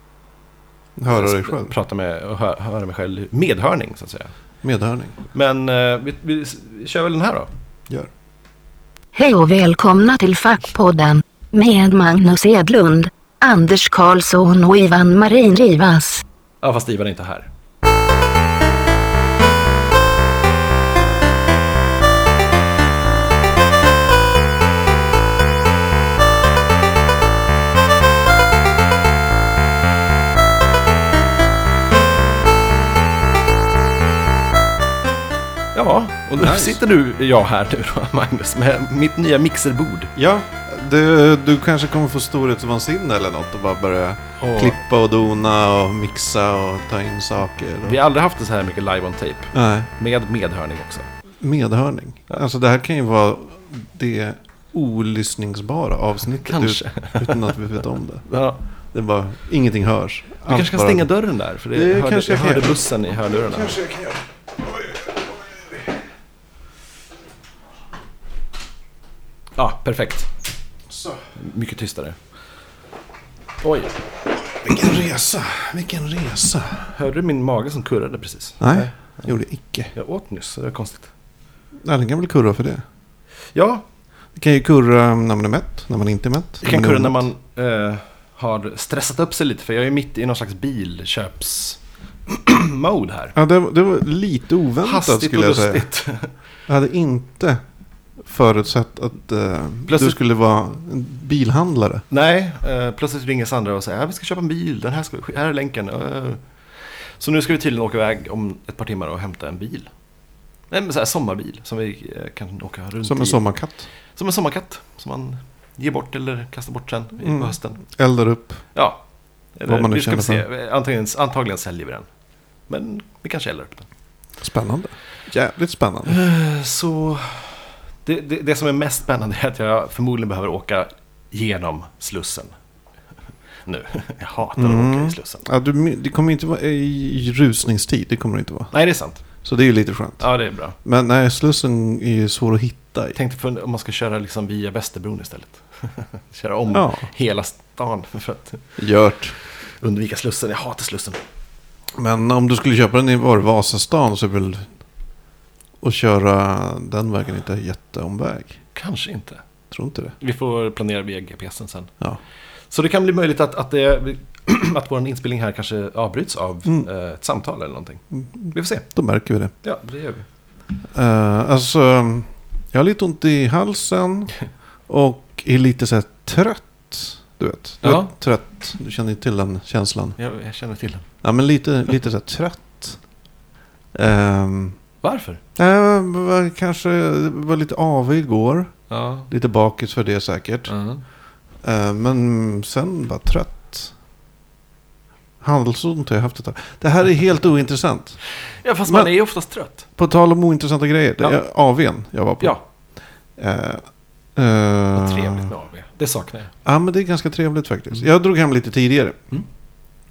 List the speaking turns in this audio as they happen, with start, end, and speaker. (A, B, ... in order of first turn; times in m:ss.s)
0:01.0-0:01.7 A
0:01.1-0:04.3 B
0:04.6-0:05.2 A
0:05.3-0:07.5 B
0:09.2-0:16.2 C
0:16.6-0:17.5 B
0:35.8-0:40.1 B
0:36.4-0:36.8 A
0:40.2-0:48.0 A
0:44.4-0:44.8 B
0:47.8-0:51.1 B
0:49.5-0:49.9 A
0:51.4-0:58.3 A
0:56.4-0:57.6 B
0:58.3-0:58.6 B
0:58.9-1:01.1 A
1:00.5-1:03.8 B
1:01.7-1:02.7 A
1:03.5-1:04.2 A
1:04.8-1:05.7 A
1:09.6-1:10.3 B
1:10.9-1:11.2 A
1:11.4-1:12.2 B
1:13.6-1:14.0 B
1:14.6-1:16.9 A
1:16.9-1:19.3 B
1:18.6-1:19.9 A
1:19.9-1:21.1 B
1:21.8-1:22.8 A
1:23.5-1:23.8 B
1:24.4-1:27.3 A
1:26.6-1:33.4 B
1:33.4-1:35.9 A
1:34.8-1:36.3 B
1:36.7-1:37.6 A
1:38.2-1:42.0 A
1:39.9-1:40.2 B
1:42.1-1:46.4 B
1:47.2-1:49.9 B
1:50.7-1:53.5 B
1:53.0-1:53.9 A
1:54.2-1:57.8 B
1:57.2-1:58.6 A
1:58.7-1:59.0 B
1:59.6-2:02.1 B
1:59.7-2:00.4 A
2:02.7-2:03.9 B
2:04.4-2:06.2 A
2:06.0-2:12.5 B
2:13.7-2:15.5 B
2:14.6-2:18.7 A
2:18.7-2:19.2 B
2:19.4-2:23.2 A
2:20.2-2:20.8 B
2:23.2-2:28.8 B
2:26.7-2:27.1 A
2:28.8-2:29.4 A
2:29.5-2:31.2 B
2:32.0-2:34.7 A
2:35.8-2:38.6 A
2:38.7-2:39.4 B
2:39.7-2:40.2 A
2:40.2-2:41.9 B
2:42.7-2:48.9 B
2:48.2-2:49.5 A
2:49.6-2:50.3 B
2:50.9-2:54.4 A
2:54.9-3:00.2 A
2:57.8-2:58.1 B
3:00.2-3:01.1 B
3:01.2-3:03.0 A
3:03.9-3:04.8 A
3:05.0-3:05.4 B
3:05.6-3:08.8 A
3:08.9-3:09.3 B
3:09.3-3:10.7 A
3:10.7-3:11.0 B
3:11.6-3:13.9 A
3:15.4-3:18.2 A
3:18.6-3:19.9 B
3:18.9-3:19.1 A
3:20.0-3:22.6 A
3:23.4-3:25.5 A
3:24.9-3:26.5 B
3:26.6-3:29.2 A